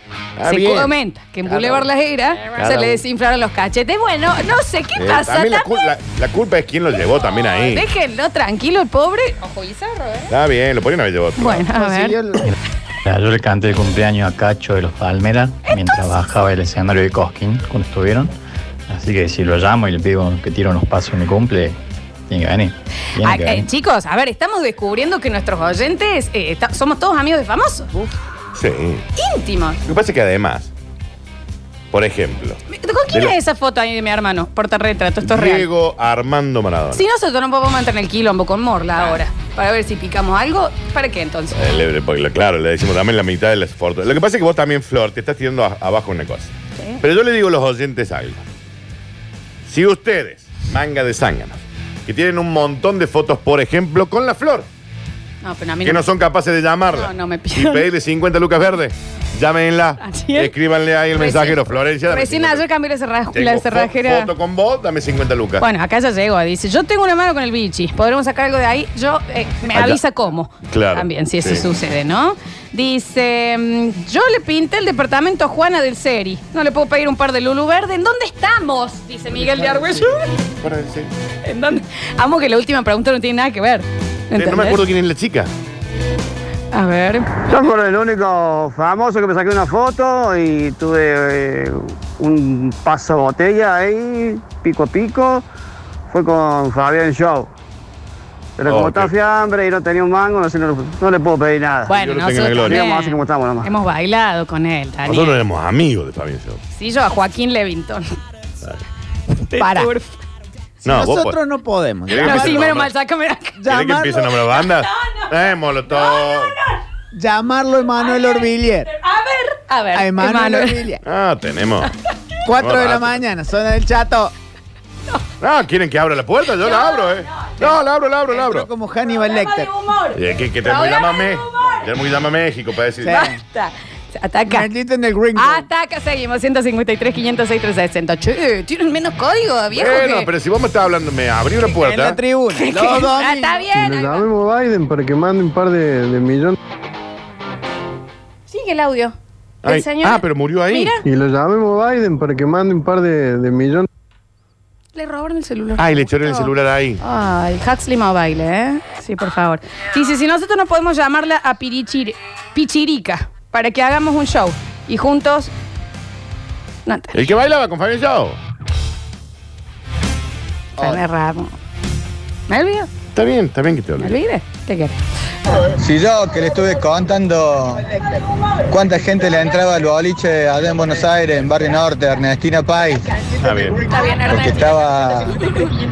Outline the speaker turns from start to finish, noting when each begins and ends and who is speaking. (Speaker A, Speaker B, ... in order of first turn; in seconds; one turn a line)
Speaker A: 0.4-0.9
Speaker B: 0.4-5.8
Speaker A: 1.4-1.9
Speaker A: 2.5-3.0
Speaker A: 5.0-7.8
Speaker B: 7.3-10.3
Speaker A: 10.3-11.7
Speaker B: 11.4-12.2
Speaker C: 11.7-12.4
Speaker D: 13.0-18.3
Speaker B: 15.7-16.0
Speaker D: 18.9-21.8
Speaker D: 22.3-23.7
Speaker B: 23.2-28.0
Speaker A: 28.5-29.0
Speaker B: 29.1-29.8
Speaker A: 29.9-30.7
Speaker A: 31.9-33.3
Speaker B: 32.7-35.7
Speaker A: 35.2-37.0
Speaker B: 36.9-41.6
Speaker A: 41.5-48.4
Speaker B: 46.8-47.0
Speaker A: 49.7-54.6
Speaker B: 55.4-56.0
Speaker A: 55.8-62.6
Speaker B: 56.9-57.8
Speaker B: 60.0-60.5
Speaker B: 61.1-64.3
Speaker A: 63.3-65.6
Speaker B: 65.6-80.3
Speaker A: 69.7-70.0
Speaker A: 70.7-71.6
Speaker A: 79.4-80.0
Speaker A: 80.6-81.1
Speaker B: 81.4-84.8
Speaker A: 84.3-85.5
Speaker B: 86.7-87.3
Speaker E: 87.5-95.4
Speaker E: 96.1-97.5
Speaker E: 98.6-102.0
Speaker A: 98.6-99.1
Speaker B: 101.9-105.4
Speaker A: 101.9-102.9
Speaker E: 102.7-103.7
Speaker A: 105.0-106.6
Speaker B: 106.7-108.1
Speaker B: 109.3-110.2
Speaker C: 109.6-109.9
Speaker A: 110.8-111.4
Speaker C: 110.8-112.8
Speaker A: 112.1-112.9
Speaker B: 112.2-113.6
Speaker C: 113.6-114.3
Speaker A: 113.7-116.5
Speaker B: 114.5-116.8
Speaker C: 117.1-118.9
Speaker B: 118.0-120.8
Speaker C: 119.9-121.0
Speaker A: 121.0-121.9
Speaker C: 122.4-124.3
Speaker A: 122.5-123.2
Speaker A: 125.4-128.7
Speaker B: 126.6-127.8
Speaker C: 128.3-129.7
Speaker B: 129.1-131.9
Speaker A: 130.1-133.2
Speaker C: 133.0-133.4
Speaker B: 133.1-134.7
Speaker C: 134.5-135.7
Speaker B: 135.3-140.3
Speaker A: 139.7-142.2
Speaker C: 141.7-143.6
Speaker B: 142.5-144.3
Speaker F: 143.7-146.5
Speaker B: 148.5-151.0
Speaker A: 149.6-150.9
Speaker F: 151.0-153.9
Speaker B: 154.9-165.5
Speaker A: 155.8-157.0
Speaker B: 166.8-167.2
Speaker A: 167.1-168.4
Speaker B: 170.8-171.5
Speaker B: 172.5-172.9
Speaker A: 173.1-174.2
Speaker B: 174.0-175.0
Speaker G: 175.8-177.9
Speaker G: 178.7-183.0
Speaker A: 183.4-183.8
Speaker B: 183.9-184.8
Speaker G: 184.3-185.4
Speaker B: 185.3-185.7